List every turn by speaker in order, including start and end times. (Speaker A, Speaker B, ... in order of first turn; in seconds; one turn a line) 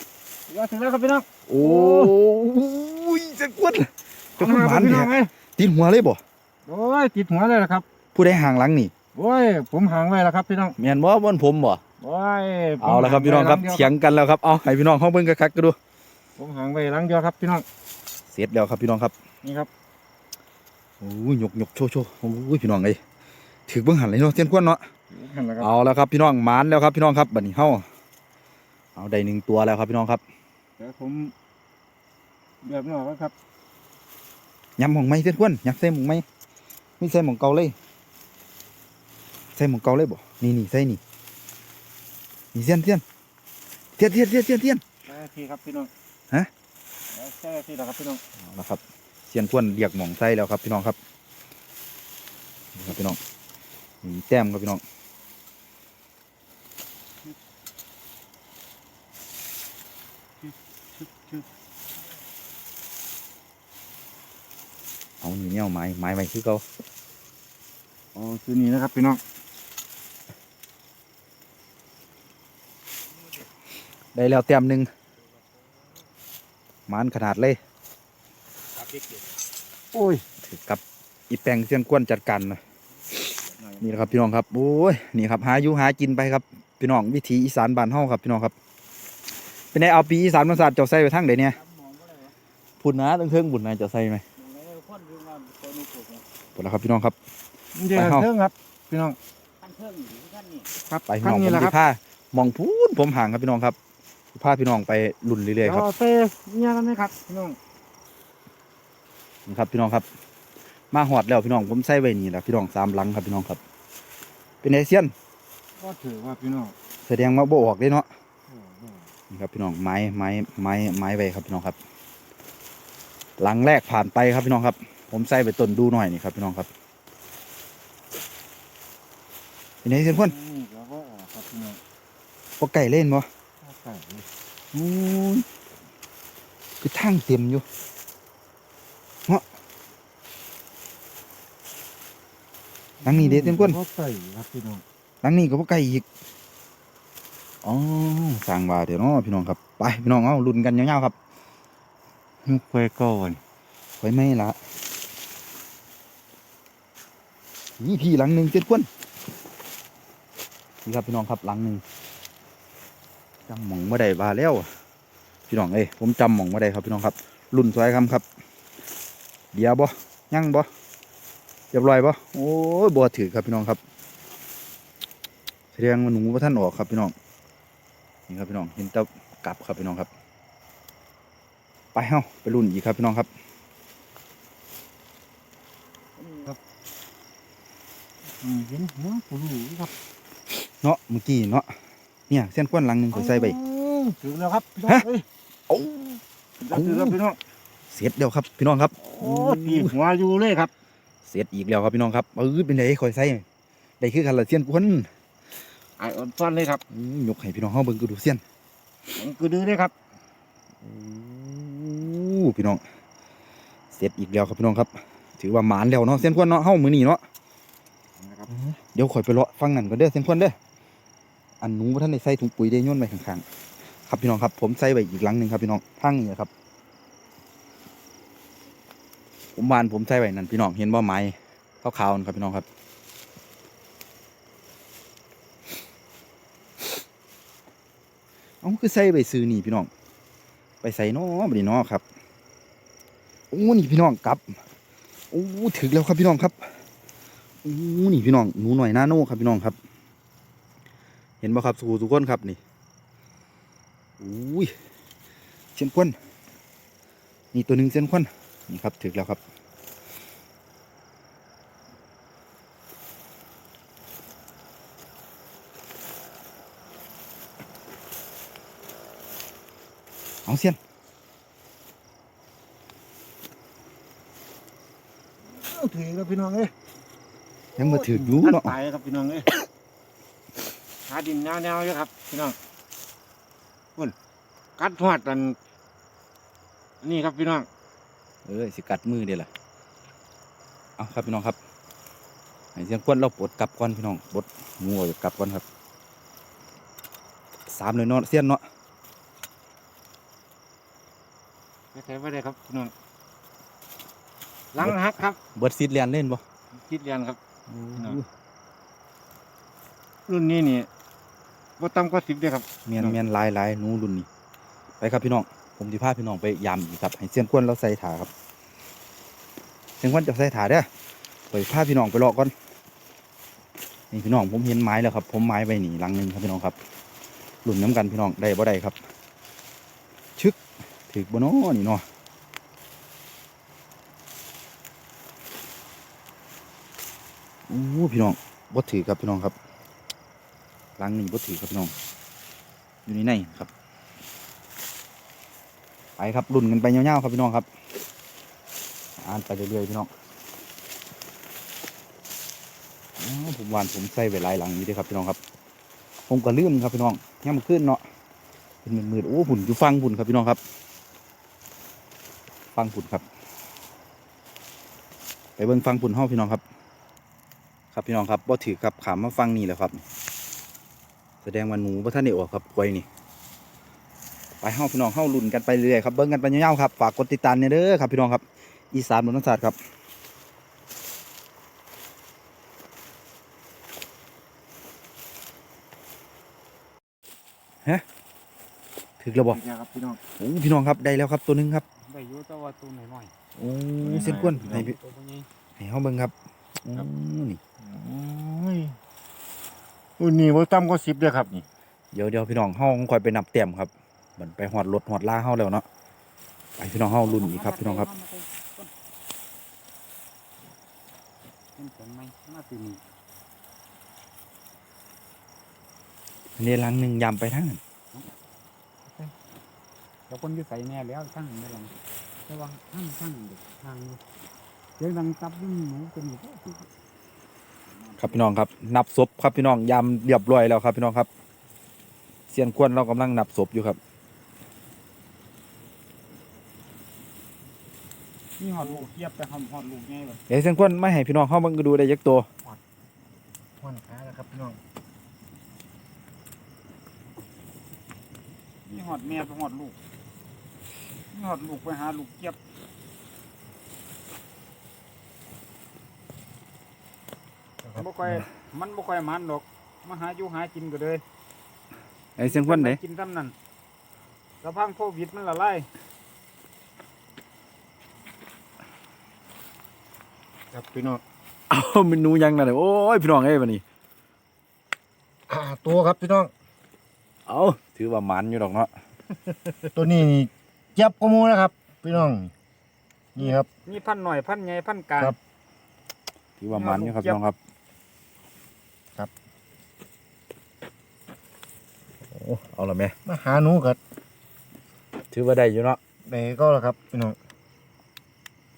Speaker A: 0.5-2.1
Speaker B: 1.5-6.2
Speaker A: 4.4-5.3
Speaker A: 6.7-7.8
Speaker B: 8.1-8.9
Speaker A: 9.1-10.8
Speaker B: 10.8-11.8
Speaker A: 12.0-13.9
Speaker B: 12.8-15.8
Speaker A: 16.4-17.6
Speaker B: 18.3-19.1
Speaker A: 19.4-19.7
Speaker B: 21.0-23.0
Speaker B: 23.7-24.8
Speaker A: 25.1-25.7
Speaker B: 25.6-27.9
Speaker B: 29.0-30.2
Speaker A: 30.8-31.3
Speaker A: 32.6-33.3
Speaker B: 34.8-36.2
Speaker B: 37.0-37.8
Speaker B: 39.6-41.0
Speaker B: 42.5-43.0
Speaker B: 44.0-44.8
Speaker A: 45.0-45.9
Speaker A: 47.1-48.2
Speaker B: 48.5-51.0
Speaker B: 52.8-53.2
Speaker B: 54.0-54.8
Speaker A: 60.4-61.4
Speaker B: 65.2-66.6
Speaker A: 68.2-69.2
Speaker B: 74.1-74.9
Speaker B: 76.9-77.6
Speaker A: 79.9-80.2
Speaker B: 80.4-82.6
Speaker B: 83.8-88.5
Speaker B: 89.7-91.6
Speaker C: 91.5-92.3
Speaker B: 92.8-94.2
Speaker C: 94.4-96.2
Speaker B: 96.6-97.2
Speaker A: 97.8-99.2
Speaker B: 98.0-98.3
Speaker C: 99.6-100.7
Speaker A: 100.9-101.8
Speaker B: 101.1-103.8
Speaker B: 104.3-105.9
Speaker A: 105.6-107.6
Speaker B: 109.5-110.1
Speaker B: 110.9-113.6
Speaker B: 114.6-115.1
Speaker A: 115.8-116.7
Speaker B: 117.1-118.1
Speaker A: 118.5-119.1
Speaker B: 119.3-121.8
Speaker B: 123.4-126.7
Speaker B: 129.8-130.3
Speaker A: 130.1-131.8
Speaker B: 132.6-133.3
Speaker A: 133.6-134.3
Speaker B: 134.7-135.4
Speaker B: 136.8-137.7
Speaker A: 143.0-144.8
Speaker B: 143.0-143.8
Speaker B: 145.2-146.1
Speaker B: 147.6-151.2
Speaker A: 152.4-153.4
Speaker B: 154.0-154.6
Speaker B: 157.8-158.9
Speaker B: 160.8-161.8
Speaker B: 163.5-164.7
Speaker B: 165.5-168.2
Speaker B: 169.5-170.7
Speaker B: 171.7-173.8
Speaker B: 175.7-177.1
Speaker B: 178.3-180.1
Speaker B: 181.9-183.3
Speaker A: 186.3-186.6
Speaker A: 188.4-189.9
Speaker B: 190.7-191.7
Speaker B: 192.3-193.6
Speaker A: 193.1-195.3
Speaker B: 195.7-197.2
Speaker A: 196.6-197.4
Speaker B: 197.9-199.9
Speaker A: 199.0-200.7
Speaker B: 201.2-203.4
Speaker B: 204.0-205.1
Speaker A: 206.0-206.8
Speaker B: 206.9-208.4
Speaker A: 209.2-209.9
Speaker B: 210.8-212.8
Speaker B: 213.9-217.2
Speaker A: 218.2-218.5
Speaker B: 218.5-220.6
Speaker B: 221.6-223.4
Speaker B: 224.1-226.5
Speaker B: 229.6-232.7
Speaker B: 238.6-239.9
Speaker B: 240.8-242.0
Speaker B: 243.5-244.4
Speaker B: 245.3-246.7
Speaker B: 247.6-249.8
Speaker B: 251.4-252.6
Speaker B: 254.2-254.7
Speaker B: 255.8-256.1
Speaker B: 257.5-259.4
Speaker B: 270.5-270.8
Speaker A: 275.5-276.7
Speaker B: 277.8-278.7
Speaker A: 277.8-279.5
Speaker A: 281.1-282.6
Speaker A: 284.8-285.6
Speaker A: 287.0-287.7
Speaker B: 288.5-289.5
Speaker B: 291.0-291.6
Speaker B: 292.8-295.6
Speaker B: 297.7-298.6
Speaker A: 301.9-302.9
Speaker A: 304.7-305.4
Speaker B: 305.6-306.4
Speaker A: 306.8-307.4
Speaker B: 307.7-308.3
Speaker A: 310.3-310.9
Speaker A: 311.8-313.2
Speaker B: 312.9-314.3
Speaker B: 315.0-318.3
Speaker B: 320.0-320.9
Speaker B: 321.5-322.5
Speaker B: 324.1-326.8
Speaker B: 327.6-329.0
Speaker B: 331.1-332.0
Speaker B: 337.7-339.6
Speaker B: 341.0-341.9
Speaker B: 343.1-343.7
Speaker B: 346.2-347.7
Speaker B: 349.2-350.1
Speaker B: 353.2-355.4
Speaker B: 356.3-358.0
Speaker B: 358.8-360.6
Speaker B: 362.8-363.2
Speaker B: 365.6-366.6
Speaker B: 367.9-370.0
Speaker B: 371.4-373.1
Speaker B: 374.6-379.8
Speaker B: 389.2-389.6
Speaker A: 389.5-390.2
Speaker B: 390.4-391.8
Speaker D: 392.1-393.3
Speaker B: 393.6-395.0
Speaker A: 394.0-394.9
Speaker D: 394.7-395.5
Speaker B: 395.8-396.3
Speaker B: 396.9-397.6
Speaker A: 397.8-399.0
Speaker A: 400.2-401.7
Speaker B: 402.1-405.9
Speaker B: 406.8-408.1
Speaker D: 407.2-408.9
Speaker D: 411.8-413.0
Speaker B: 416.6-417.8
Speaker D: 420.3-421.9
Speaker D: 422.5-424.2
Speaker D: 425.0-426.9
Speaker B: 428.2-431.3
Speaker B: 432.5-434.0
Speaker D: 438.6-440.4
Speaker B: 440.5-442.5
Speaker A: 443.8-444.8
Speaker D: 448.9-450.0
Speaker D: 451.3-452.6
Speaker A: 457.8-458.4
Speaker D: 458.0-461.2
Speaker B: 462.4-463.0
Speaker D: 462.4-463.6
Speaker D: 464.6-465.9
Speaker A: 470.7-471.2
Speaker B: 471.7-473.8
Speaker A: 475.5-476.5
Speaker B: 477.5-478.9
Speaker B: 479.5-479.8
Speaker A: 479.9-482.5
Speaker A: 483.4-483.7
Speaker D: 483.9-485.4
Speaker B: 486.6-487.6
Speaker D: 486.7-487.4
Speaker B: 492.3-493.1
Speaker A: 493.2-494.0
Speaker B: 495.3-496.0
Speaker A: 496.3-497.4